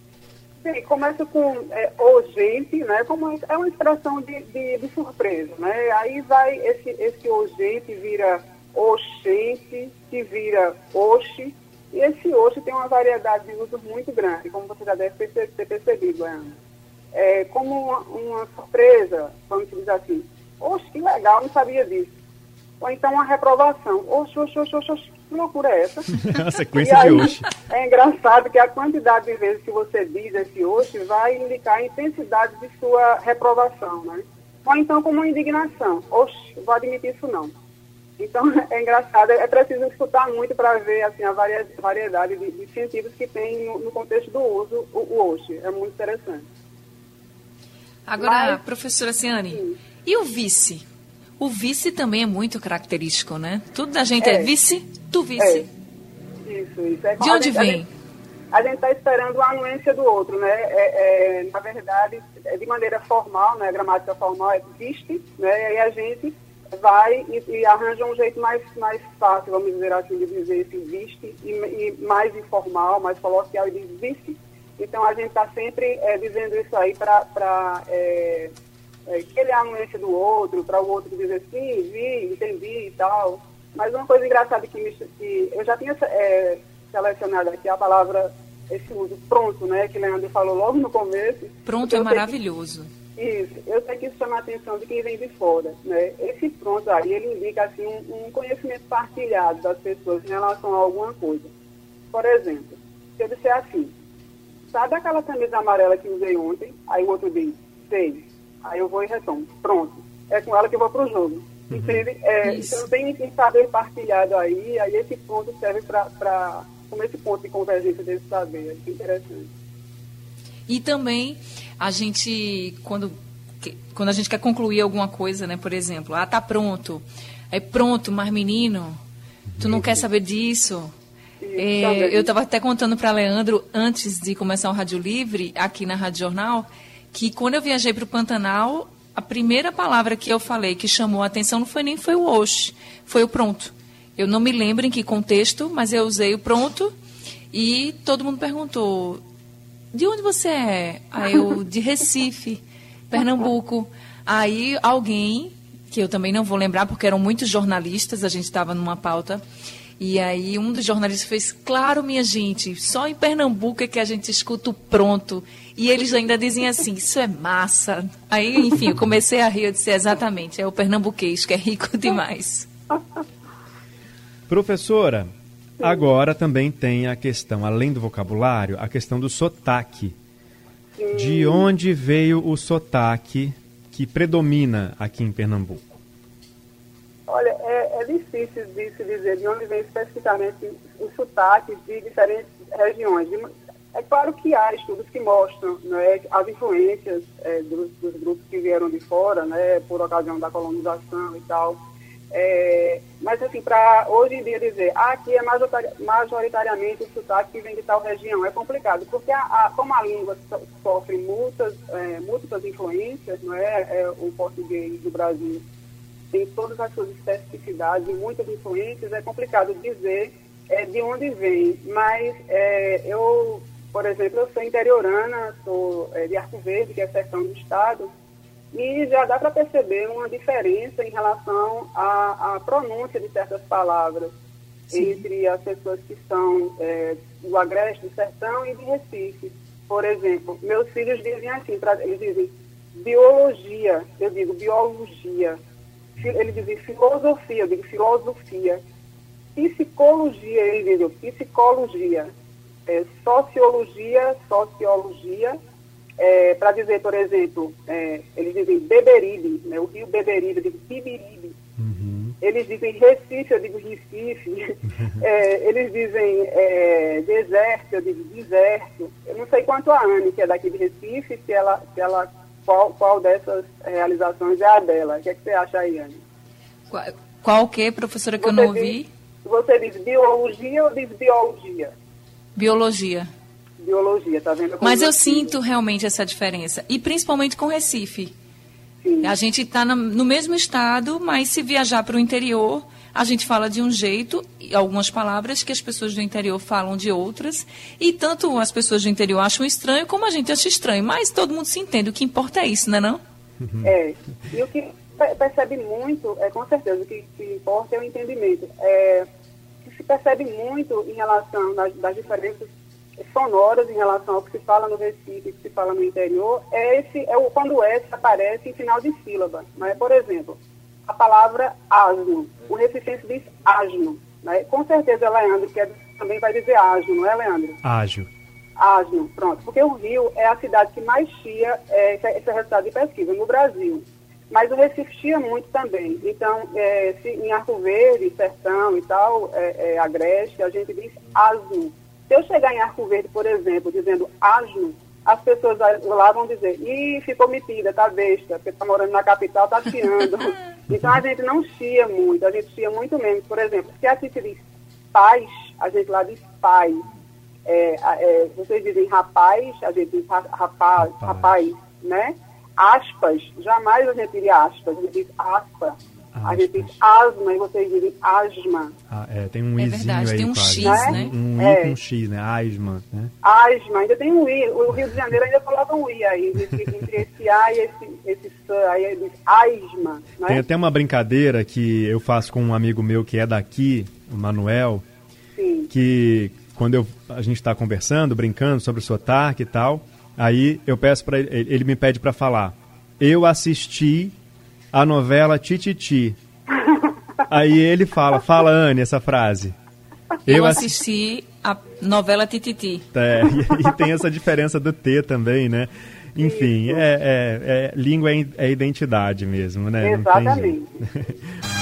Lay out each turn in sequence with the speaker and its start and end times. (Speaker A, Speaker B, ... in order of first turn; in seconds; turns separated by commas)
Speaker A: 0.6-16.6, Speaker A: 17.1-22.1, Speaker A: 22.8-26.1, Speaker B: 26.1-27.5, Speaker A: 26.8-37.5, Speaker A: 38.2-46.5, Speaker C: 48.1-50.9, Speaker A: 48.2-48.6, Speaker A: 49.5-49.8, Speaker C: 51.4-55.7, Speaker A: 54.2-54.5, Speaker A: 55.4-55.7, Speaker A: 56.4-57.8, Speaker C: 57.2-57.9, Speaker A: 58.5-78.5, Speaker A: 79.1-92.3, Speaker C: 91.7-92.9, Speaker A: 93.2-101.5, Speaker A: 102.1-103.9, Speaker A: 104.7-119.5, Speaker B: 111.7-112.1, Speaker C: 112.4-112.8, Speaker C: 120.7-129.0, Speaker B: 129.5-130.0, Speaker C: 129.6-130.9, Speaker A: 131.4-132.3, Speaker C: 131.6-146.9, Speaker C: 147.5-149.2, Speaker C: 149.9-159.4, Speaker C: 160.0-172.7, Speaker B: 174.5-180.2, Speaker A: 180.9-181.7, Speaker B: 181.1-186.0, Speaker A: 187.3-201.8, Speaker A: 202.3-215.6, Speaker A: 216.3-228.1, Speaker A: 228.7-234.3, Speaker C: 234.9-235.2, Speaker A: 234.9-245.6, Speaker A: 246.2-248.8, Speaker A: 249.6-252.3, Speaker A: 252.9-255.6, Speaker A: 256.2-261.6, Speaker B: 261.8-262.4, Speaker A: 262.4-276.2, Speaker C: 276.9-279.1, Speaker A: 278.4-281.9, Speaker C: 282.6-283.3, Speaker A: 283.8-285.5, Speaker C: 284.8-288.3, Speaker A: 289.0-289.3, Speaker C: 289.2-303.2, Speaker B: 303.6-303.9, Speaker A: 303.8-309.3, Speaker A: 309.8-312.7, Speaker A: 313.3-327.8, Speaker B: 327.8-328.3, Speaker A: 328.8-357.1, Speaker A: 357.7-369.0, Speaker B: 361.0-361.5, Speaker B: 366.4-367.0, Speaker B: 369.1-373.3, Speaker C: 369.8-371.4, Speaker A: 370.8-371.9, Speaker A: 373.4-380.6, Speaker B: 380.4-385.1, Speaker A: 385.6-385.9, Speaker B: 385.9-394.4, Speaker B: 394.9-396.4, Speaker B: 397.5-399.8, Speaker B: 400.5-400.9, Speaker C: 400.5-403.1, Speaker B: 403.1-411.3, Speaker A: 406.4-407.0, Speaker A: 410.0-410.9